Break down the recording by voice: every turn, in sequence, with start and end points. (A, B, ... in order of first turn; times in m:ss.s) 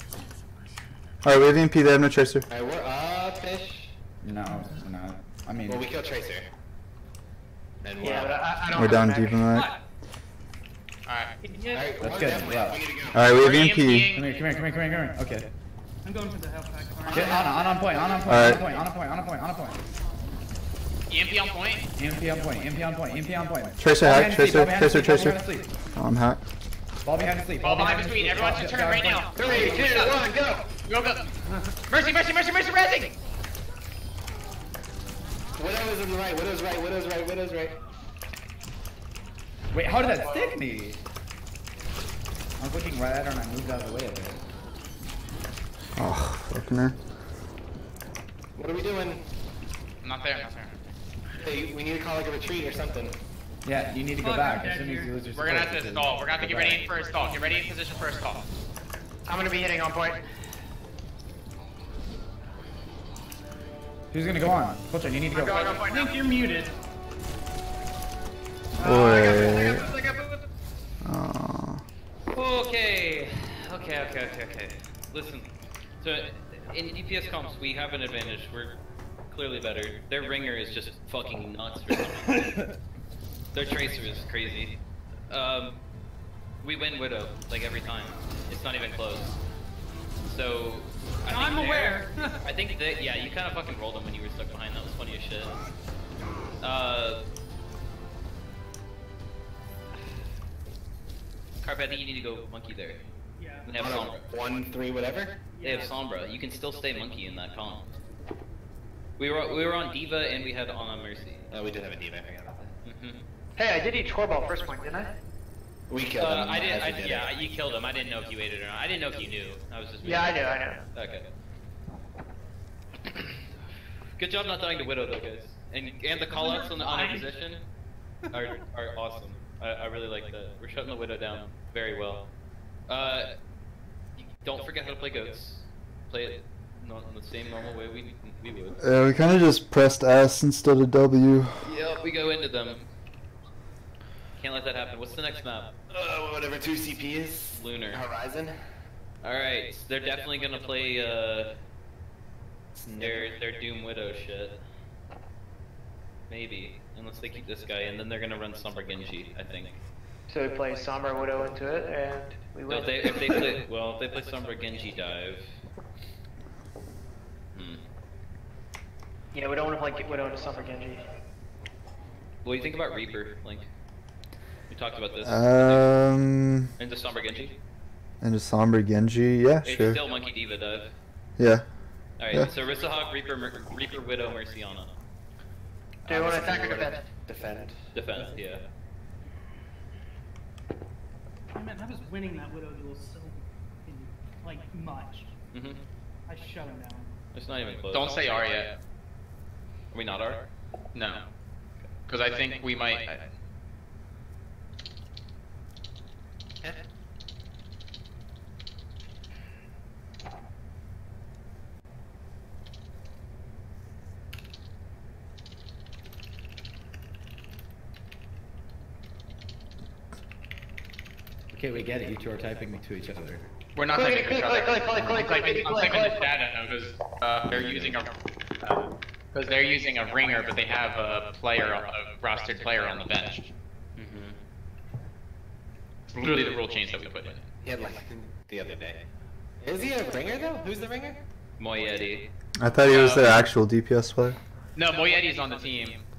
0:01.2-0:02.5 A
0:02.5-0:03.9 B
0:04.2-0:05.8 C
0:05.6-0:06.5 B
0:07.8-0:08.5 B
0:08.0-0:09.5 D
0:08.7-0:09.7 A
0:09.5-0:09.8 E
0:11.0-0:11.3 F
0:11.4-0:12.0 E
0:11.7-0:13.3 B
0:12.0-0:12.9 C
0:13.1-0:14.1 A
0:13.3-0:14.3 F
0:14.1-0:15.5 C
0:16.0-0:18.7 E
0:17.1-0:19.8 C
0:17.1-0:17.5 B
0:18.3-0:18.6 A
0:21.1-0:21.9 F
0:22.0-0:25.7 C
0:23.8-0:25.4 A
0:26.0-0:26.4 A
0:27.0-0:29.5 C
0:27.6-0:30.3 F
0:29.4-0:30.6 D
0:30.8-0:31.2 F
0:31.9-0:33.1 F
0:35.6-0:37.7 B
0:39.7-0:41.0 C
0:42.6-0:44.4 C
0:46.0-0:47.0 A
0:48.6-0:49.2 B
0:50.0-0:50.7 F
0:51.4-0:53.2 B
0:53.6-0:56.9 C
0:54.1-0:55.2 E
0:55.3-0:58.4 F
0:59.3-1:00.2 D
1:04.1-1:05.7 C
1:05.3-1:06.1 D
1:05.4-1:06.1 F
1:05.8-1:06.7 E
1:08.8-1:09.9 A
1:08.8-1:10.3 D
1:09.0-1:09.9 B
1:11.0-1:11.8 A
1:12.3-1:15.5 G
1:16.0-1:18.8 G
1:19.3-1:22.7 G
1:23.5-1:24.8 G
1:25.3-1:25.8 G
1:26.6-1:29.4 G
1:30.2-1:35.6 G
1:31.3-1:32.4 E
1:36.6-1:37.2 G
1:41.6-1:43.0 G
1:43.4-1:43.7 E
1:43.6-1:44.2 G
1:43.8-1:45.4 B
1:45.5-1:46.0 E
1:45.6-1:47.9 G
1:49.2-1:51.5 G
1:51.5-1:52.7 B
1:52.8-1:53.2 G
1:53.6-1:55.1 D
1:55.9-1:57.3 B
1:56.2-2:01.3 G
2:00.0-2:00.8 D
2:04.2-2:07.7 G
2:06.3-2:07.4 E
2:08.3-2:12.3 G
2:12.9-2:13.3 G
2:14.2-2:18.8 G
2:18.8-2:21.7 A
2:21.6-2:22.9 G
2:24.4-2:25.7 G
2:25.9-2:28.6 B
2:27.5-2:28.0 G
2:29.2-2:31.6 G
2:32.8-2:33.4 B
2:33.0-2:34.6 G
2:36.3-2:39.8 G
2:40.3-2:43.5 D
2:42.7-2:45.5 G
2:47.5-2:47.8 G
2:49.3-2:51.0 D
2:52.4-2:53.7 G
2:54.7-2:55.9 G
2:55.2-2:56.7 A
2:56.8-2:57.6 G
2:58.2-3:00.0 A
2:59.6-3:00.9 G
3:01.4-3:02.5 A
3:02.2-3:05.0 G
3:06.0-3:08.4 B
3:06.1-3:07.0 D
3:07.9-3:08.6 G
3:11.5-3:15.3 E
3:15.5-3:15.8 G
3:16.3-3:17.2 E
3:17.3-3:18.6 G
3:17.9-3:18.7 F
3:19.9-3:20.5 G
3:20.9-3:21.2 F
3:22.1-3:23.2 F
3:41.5-3:43.4 C
3:43.8-3:53.5 F
3:43.9-3:46.3 D
3:44.9-3:45.3 C
3:47.5-3:48.0 G
3:54.0-3:54.4 G
3:56.1-3:57.4 F
3:56.2-3:56.5 G
3:57.6-3:59.0 B
3:59.6-4:01.2 B
4:01.6-4:02.3 G
4:02.6-4:04.4 A
4:02.9-4:03.5 F
4:04.8-4:06.0 F